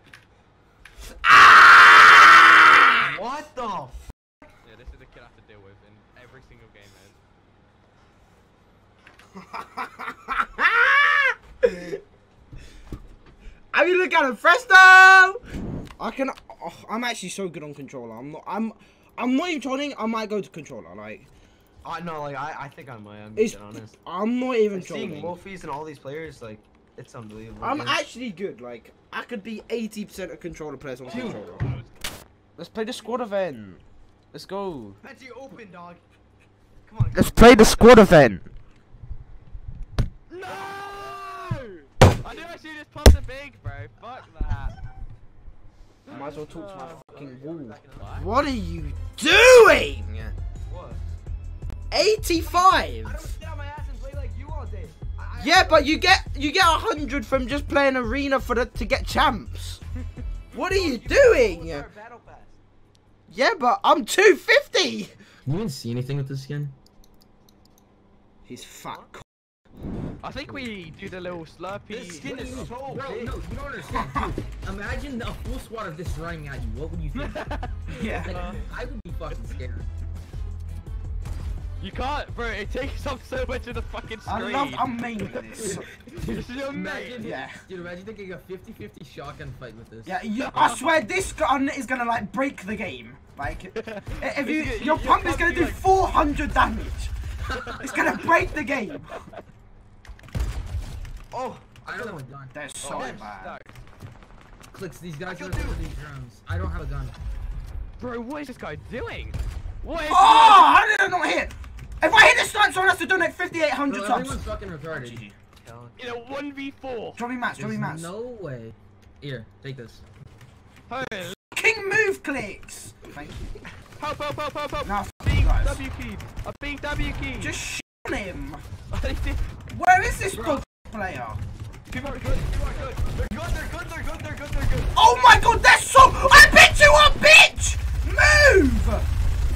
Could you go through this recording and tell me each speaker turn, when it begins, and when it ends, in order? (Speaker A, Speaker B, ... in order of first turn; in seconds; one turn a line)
Speaker A: 1.2-3.0
Speaker B: 2.9-3.5
Speaker C: 3.0-4.0
Speaker B: 4.6-7.2
Speaker A: 9.4-12.0
Speaker A: 13.7-15.4
Speaker A: 16.0-21.3
Speaker C: 21.8-24.0
Speaker A: 23.4-25.4
Speaker C: 24.7-28.1
Speaker A: 27.6-31.7
Speaker D: 31.1-31.4
Speaker B: 31.1-31.9
Speaker A: 32.6-35.0
Speaker C: 35.0-36.0
Speaker C: 36.8-38.0
Speaker A: 37.1-38.5
Speaker B: 40.3-44.8
Speaker C: 40.5-40.8
Speaker B: 46.1-47.1
Speaker A: 46.1-50.4
Speaker C: 46.1-48.2
Speaker B: 48.0-48.3
Speaker C: 50.7-51.1
Speaker A: 51.9-53.3
Speaker C: 52.4-56.0
Speaker A: 55.4-59.8
Speaker A: 60.5-61.9
Speaker C: 60.5-62.6
Speaker A: 63.3-65.1
Speaker D: 65.5-66.7
Speaker A: 68.5-69.3
Speaker B: 70.2-72.7
Speaker A: 70.5-71.4
Speaker C: 71.9-73.4
Speaker D: 72.2-77.4
Speaker A: 74.0-74.3
Speaker B: 77.2-78.6
Speaker A: 77.9-78.4
Speaker D: 78.1-79.9
Speaker B: 81.8-87.2
Speaker A: 84.2-85.9
Speaker D: 85.6-90.2
Speaker A: 87.2-87.6
Speaker A: 90.0-97.1
Speaker B: 90.5-90.9
Speaker B: 93.8-95.8
Speaker D: 97.5-98.0
Speaker A: 97.8-99.2
Speaker B: 98.0-98.3
Speaker C: 101.3-102.2
Speaker D: 101.9-102.6
Speaker A: 102.5-103.6
Speaker B: 102.8-103.8
Speaker C: 102.9-103.3
Speaker D: 104.7-107.2
Speaker C: 105.3-105.8
Speaker B: 108.0-110.7
Speaker A: 110.1-115.3
Speaker D: 113.9-115.2
Speaker C: 115.6-116.2
Speaker B: 116.0-117.2
Speaker A: 117.2-118.1
Speaker D: 117.6-120.0
Speaker B: 120.9-121.4
Speaker A: 121.2-123.7
Speaker B: 124.0-127.5
Speaker A: 124.8-125.8
Speaker A: 127.4-128.6
Speaker B: 128.9-129.4
Speaker A: 129.7-131.4
Speaker B: 130.3-130.6
Speaker B: 131.9-133.0
Speaker C: 132.0-135.0
Speaker A: 135.0-139.1